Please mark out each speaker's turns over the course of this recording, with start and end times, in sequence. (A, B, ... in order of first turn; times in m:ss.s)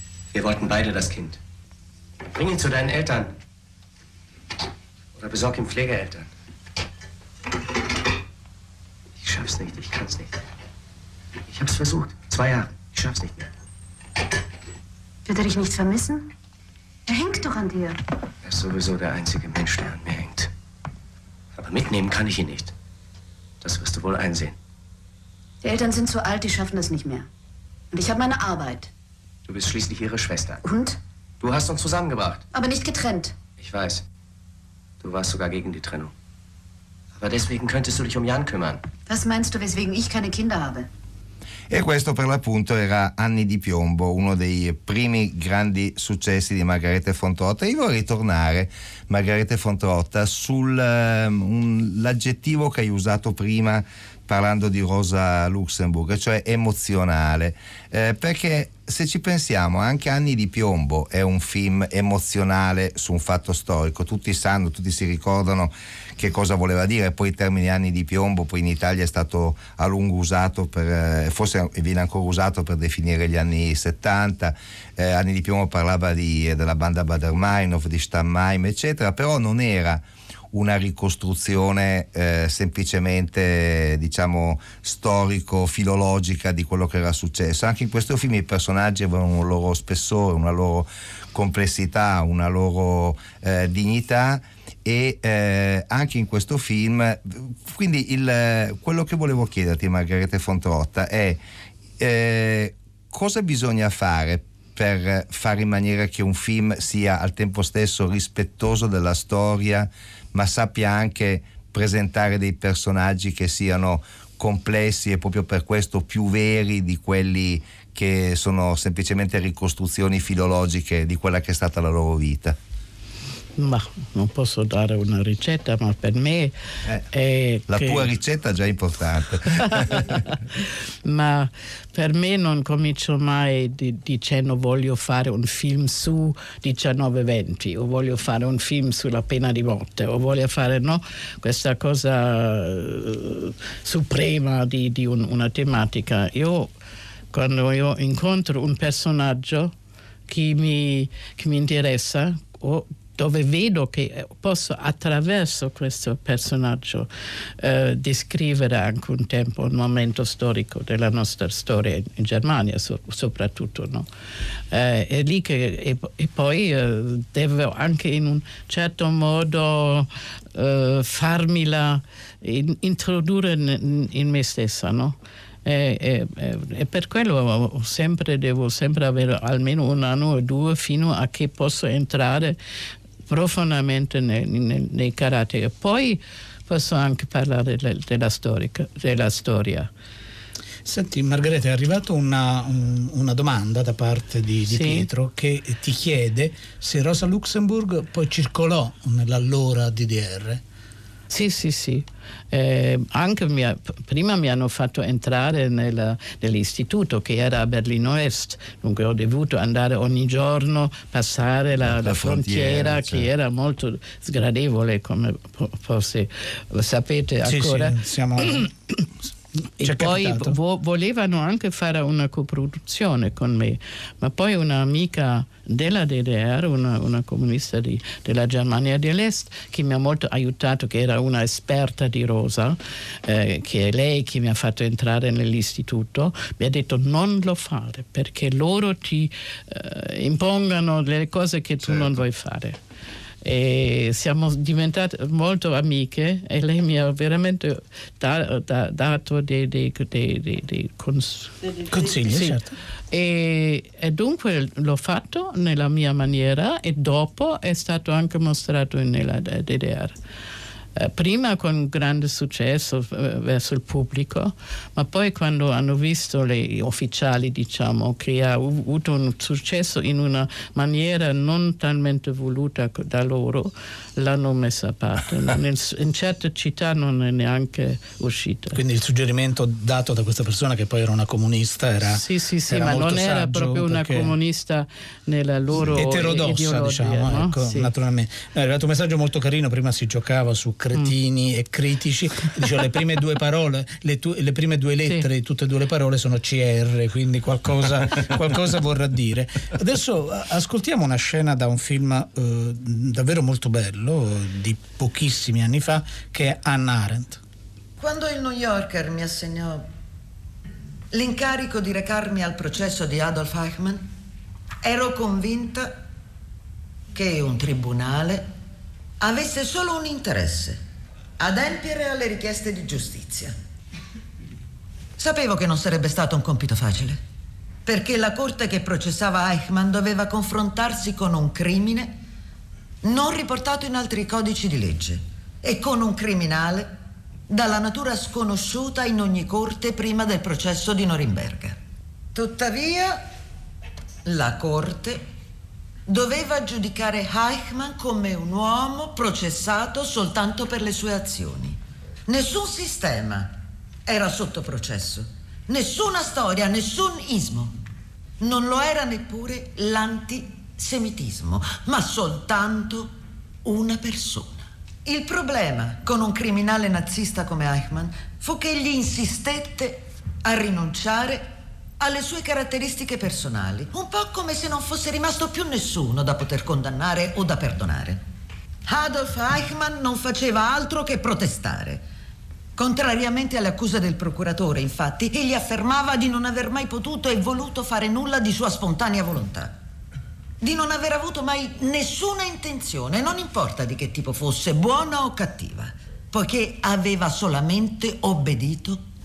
0:00.3-0:01.4 A
0:02.3-0:03.3 A
0:05.2-0:06.3 A
0:09.2-0:10.3 A
0:11.5-0:13.5 A
0:15.2-0:16.3 B
0:17.1-0:18.0 B
0:18.4-0:20.5 A
0:21.5-0:22.7 A
0:23.6-0:24.5 A
0:25.6-0:27.3 B
0:27.9-0:28.9 B
0:29.5-0:30.6 A
0:30.6-0:31.0 B
0:31.4-0:32.4 A
0:32.5-0:33.4 B
0:33.6-0:34.0 A
0:35.0-0:36.1 A
0:37.2-0:38.8 A
0:39.1-0:40.9 B
0:41.7-1:20.0 C
1:20.5-1:41.4 C
1:42.0-2:02.5 C
2:03.6-2:06.5 D
2:07.1-2:08.1 D
2:07.7-2:10.2 C
2:09.7-2:26.7 D
2:27.3-2:29.7 D
2:30.3-2:37.1 D
2:37.6-2:44.1 D
2:44.7-3:02.6 D
3:03.3-3:09.9 D
3:10.8-3:20.6 E
3:14.7-3:15.1 D
3:21.3-3:38.0 D
3:31.8-3:33.3 C
3:37.4-3:38.7 E
3:39.8-3:40.6 E
3:39.8-4:02.8 D
4:03.4-4:12.6 D
4:11.9-4:12.7 E
4:13.1-4:20.1 D
4:21.0-4:38.8 D
4:38.7-4:44.3 E
4:42.0-4:47.9 D
4:45.7-5:07.4 E
5:08.0-5:09.8 F
5:11.1-5:14.0 F
5:14.8-5:16.0 F
5:17.1-5:18.5 F
5:19.2-5:20.8 F
5:21.4-5:23.5 F
5:25.2-5:27.2 F
5:27.8-5:32.2 F
5:33.0-5:36.9 F
5:37.5-5:41.8 F
5:42.3-5:43.2 F
5:44.2-5:45.2 F
5:46.1-5:53.5 F
5:54.0-5:57.7 F
5:58.4-6:03.1 F
6:03.6-6:11.4 F
6:12.0-6:18.2 F
6:18.9-6:22.0 F
6:22.8-6:29.8 F
6:30.6-6:39.0 F